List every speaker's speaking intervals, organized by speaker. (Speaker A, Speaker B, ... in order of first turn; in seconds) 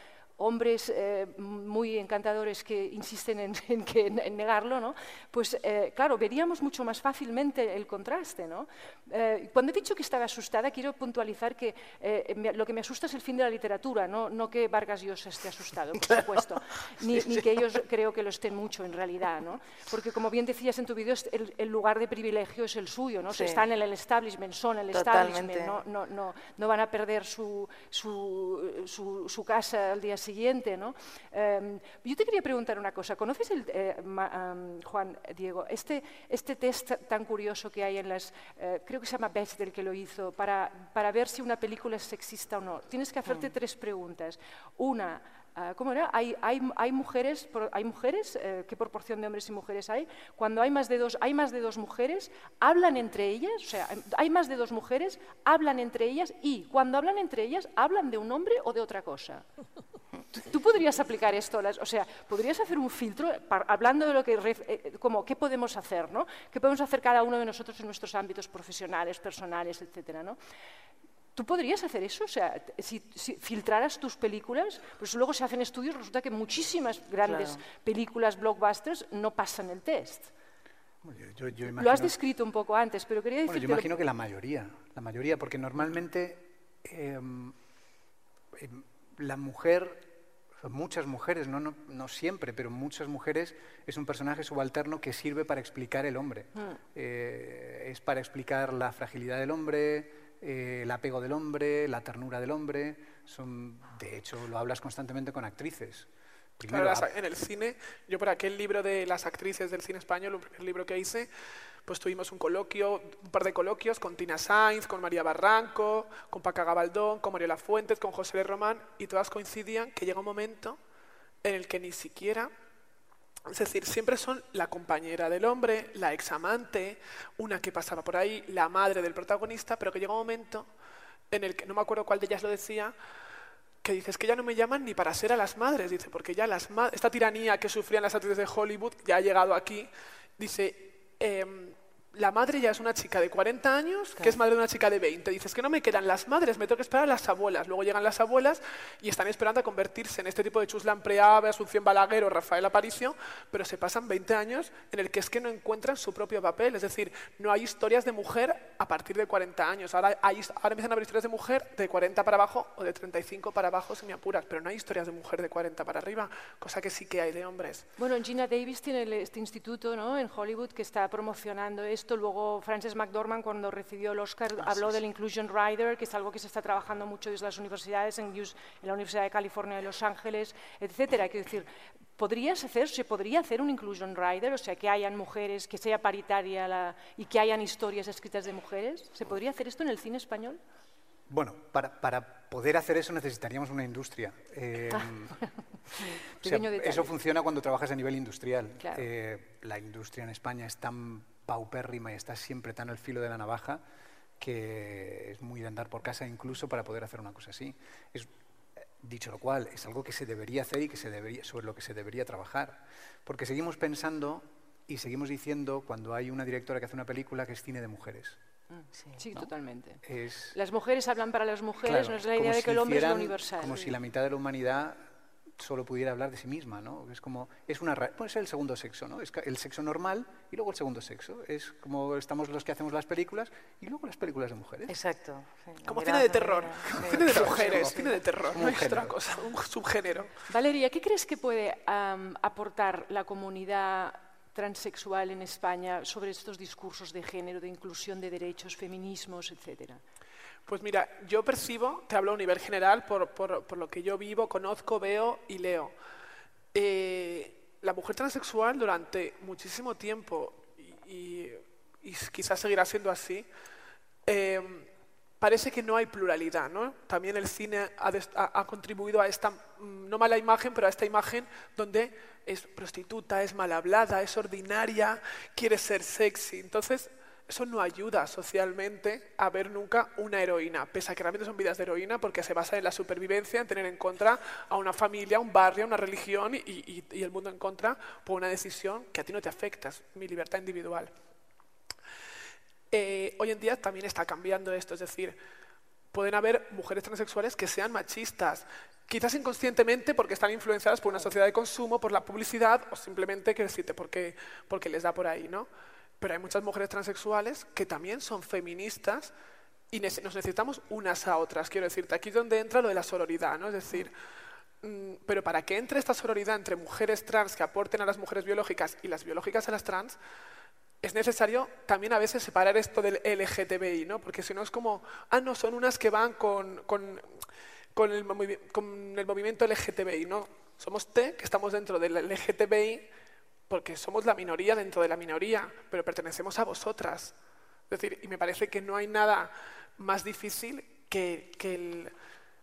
Speaker A: 0.4-59.5, 60.3-70.4, 71.3-80.3, 81.7-83.9, 168.0-190.6, 196.0-197.1, 198.8-199.1, 218.7-220.0, 220.5-223.9, 240.5-250.0
Speaker B: 17.1-17.4, 23.3-23.6, 24.9-25.8, 77.2-77.6, 234.9-238.0
Speaker C: 81.0-82.2, 83.5-87.6, 88.5-90.1, 90.6-106.1, 106.6-107.1, 191.3-195.4, 196.4-203.8, 204.4-208.3, 209.0-218.4, 220.0-220.6, 221.8-225.0, 225.6-235.0, 237.1-238.0, 238.5-239.2
Speaker D: 106.7-111.3, 111.9-120.8, 121.4-122.5, 123.5-130.7, 131.3-132.9, 133.8-167.8, 235.8-240.3, 250.7-255.9, 256.7-263.5, 264.3-264.9, 265.4-291.1, 292.9-295.4, 296.1-305.7, 306.2-309.3, 309.9-314.1, 314.8-320.2, 321.0-327.3, 327.9-333.1, 333.7-337.4, 337.9-342.1